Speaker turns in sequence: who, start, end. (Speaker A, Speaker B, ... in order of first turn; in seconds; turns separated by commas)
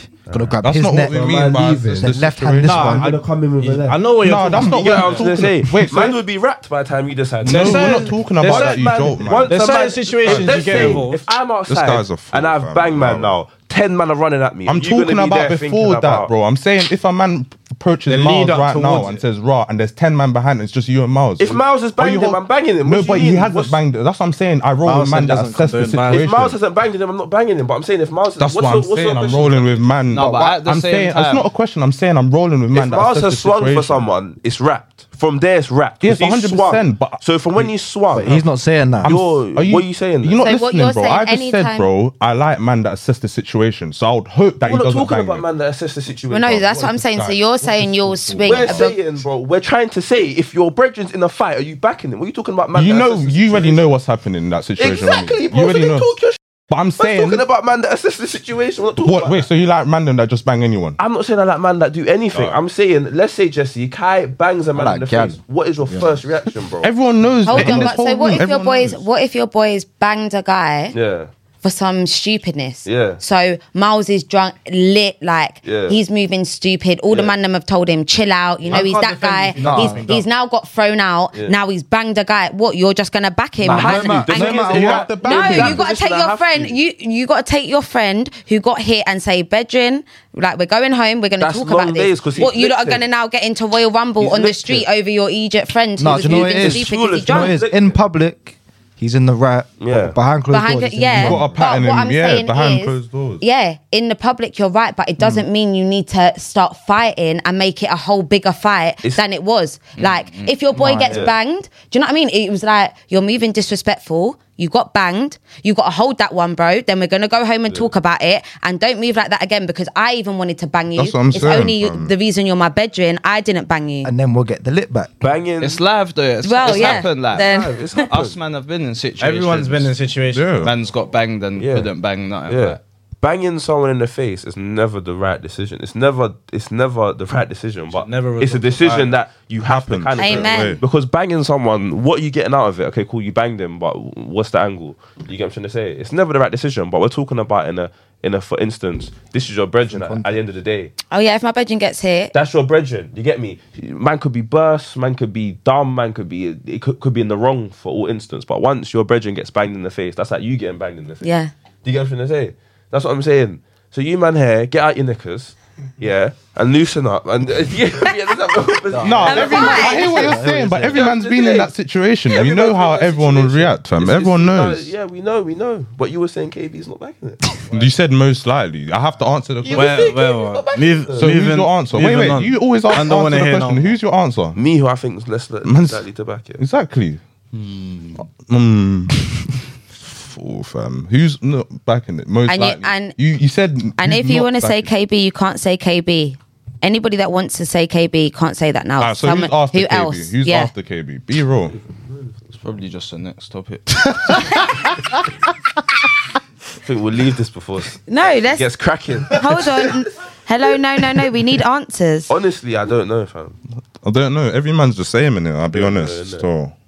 Speaker A: 0.3-16.3, Speaker B: 0.3-3.1, Speaker C: 0.6-3.0, Speaker D: 2.6-5.3, Speaker C: 4.2-6.2, Speaker C: 7.5-9.6, Speaker D: 7.5-11.3, Speaker C: 10.2-11.1, Speaker C: 11.7-13.4, Speaker C: 14.7-26.6, Speaker D: 18.1-19.2, Speaker A: 21.4-23.8, Speaker D: 24.8-26.3, Speaker A: 26.1-29.9, Speaker C: 28.4-34.0, Speaker E: 30.1-31.5, Speaker B: 30.1-30.6, Speaker A: 32.7-38.4, Speaker C: 36.0-37.6, Speaker B: 38.1-39.1, Speaker C: 39.0-45.5, Speaker A: 39.0-40.4, Speaker F: 40.4-41.9, Speaker A: 44.6-47.0, Speaker F: 46.3-49.0, Speaker C: 47.0-48.9, Speaker A: 48.4-53.9, Speaker C: 52.7-56.1, Speaker A: 54.8-56.4, Speaker C: 56.7-57.4, Speaker A: 57.0-59.5, Speaker C: 59.0-61.0, Speaker A: 61.0-66.9, Speaker B: 64.8-66.2, Speaker C: 66.8-69.0, Speaker F: 67.5-71.0, Speaker A: 67.5-67.8, Speaker A: 70.9-71.3, Speaker F: 71.6-97.6, Speaker A: 72.8-73.2, Speaker A: 75.6-76.0, Speaker A: 78.7-80.1, Speaker B: 79.6-80.1, Speaker D: 79.7-80.1, Speaker B: 83.6-85.1, Speaker A: 83.7-86.8, Speaker C: 84.3-85.8, Speaker A: 91.4-93.0, Speaker A: 94.2-94.9, Speaker B: 96.0-101.6, Speaker A: 96.2-98.0, Speaker A: 99.8-100.2, Speaker F: 100.5-124.1, Speaker C: 101.2-103.4, Speaker E: 110.0-110.6, Speaker B: 110.7-111.3, Speaker A: 111.1-111.3, Speaker C: 121.0-122.2, Speaker B: 124.0-125.1, Speaker A: 125.2-125.8, Speaker E: 125.6-129.9, Speaker F: 126.4-128.1, Speaker A: 126.6-128.4, Speaker D: 129.2-130.6, Speaker C: 130.3-130.7, Speaker E: 130.6-132.8, Speaker A: 131.6-131.9, Speaker A: 132.5-150.9, Speaker D: 137.9-139.2, Speaker C: 139.7-140.8, Speaker F: 140.2-140.8, Speaker B: 149.9-150.4, Speaker F: 151.1-152.3, Speaker A: 152.3-161.3, Speaker F: 161.2-161.5, Speaker A: 161.8-171.7, Speaker B: 168.9-171.1, Speaker C: 169.0-174.9, Speaker F: 169.2-170.2, Speaker A: 172.3-177.9, Speaker C: 177.7-180.0, Speaker A: 179.6-181.3, Speaker D: 179.7-184.0, Speaker C: 181.2-184.6, Speaker A: 184.6-186.6, Speaker C: 185.6-186.1, Speaker C: 186.6-187.2, Speaker C: 188.3-189.2, Speaker C: 190.1-194.9, Speaker F: 192.5-193.2, Speaker F: 194.0-200.7, Speaker C: 199.0-201.8, Speaker A: 201.7-202.6, Speaker E: 202.6-204.7, Speaker A: 206.8-209.9, Speaker F: 208.1-208.7, Speaker F: 209.3-212.3, Speaker A: 212.3-213.6, Speaker C: 214.0-216.8, Speaker A: 215.7-216.5